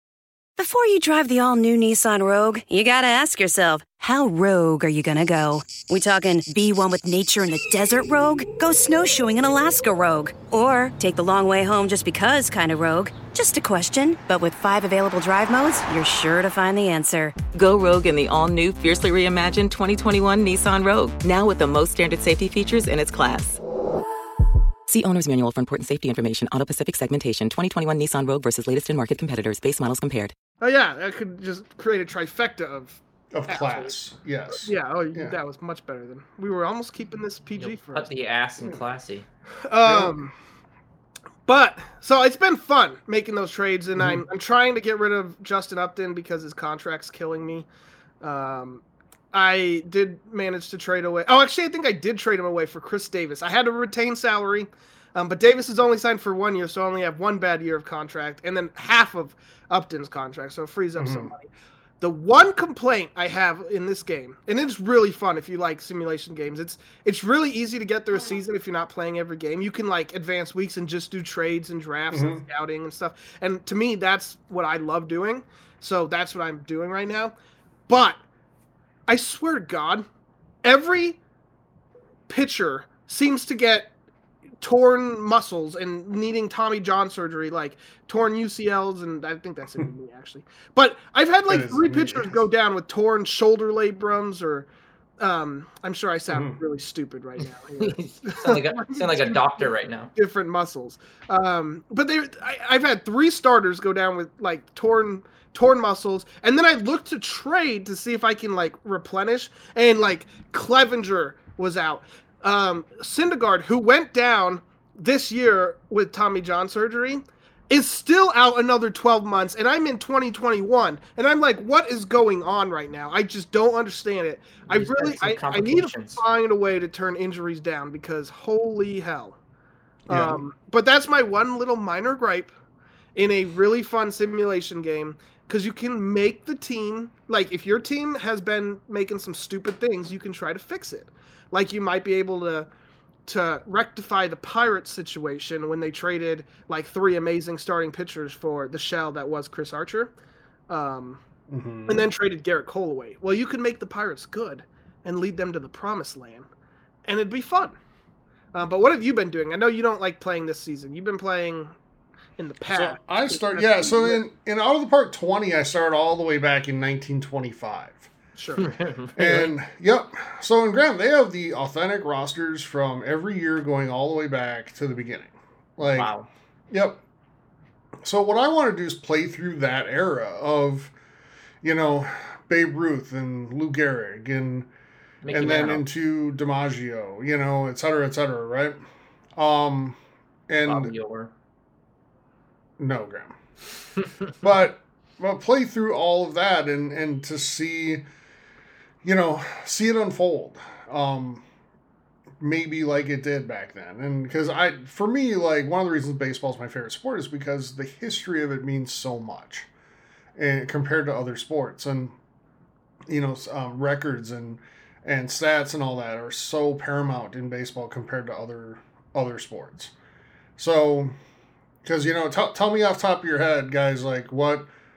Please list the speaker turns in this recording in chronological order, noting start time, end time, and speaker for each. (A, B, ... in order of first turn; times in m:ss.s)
0:00.6-0:17.3 A
0:17.5-0:23.6 B
0:24.9-0:30.3 B
0:30.6-0:33.9 C
0:33.3-0:35.4 D
0:34.6-0:38.1 C
0:37.6-0:39.2 E
0:39.6-0:40.3 C
0:39.8-0:40.3 D
0:41.4-0:47.7 C
0:43.9-0:44.2 D
0:48.2-1:01.5 C
1:01.0-1:01.3 D
1:02.0-1:17.3 C
1:12.1-1:12.4 D
1:17.9-1:18.2 C
1:19.1-1:20.0 C
1:20.6-1:21.2 C
1:22.3-1:23.9 C
1:24.6-1:34.7 C
1:31.5-1:32.4 D
1:35.2-1:39.4 C
1:36.3-1:36.6 D
1:37.8-1:40.1 E
1:40.2-2:09.4 C
2:04.7-2:06.2 E
2:10.1-2:12.5 C
2:10.1-2:10.4 D
2:13.2-2:22.7 C
2:23.2-2:30.1 C
2:30.7-2:31.2 C
2:31.5-2:32.1 D
2:31.9-2:36.5 C
2:37.0-2:37.8 C
2:38.5-2:41.7 C
2:42.4-2:44.2 C
2:42.7-2:48.1 D
2:48.4-2:49.4 C
2:48.6-2:49.4 E
2:49.2-2:56.1 D
2:55.8-2:56.3 E
2:56.7-2:57.0 D
2:58.0-3:00.9 D
3:01.6-3:04.7 D
3:05.2-3:05.8 E
3:05.3-3:08.8 D
3:09.4-3:10.0 D
3:10.5-3:10.9 D
3:10.6-3:11.3 E
3:12.8-3:13.4 D
3:14.4-3:18.0 D
3:19.0-3:21.4 D
3:22.4-3:29.7 D
3:30.4-3:32.2 D
3:33.1-3:39.9 D
3:40.6-3:41.1 D
3:41.8-3:44.7 D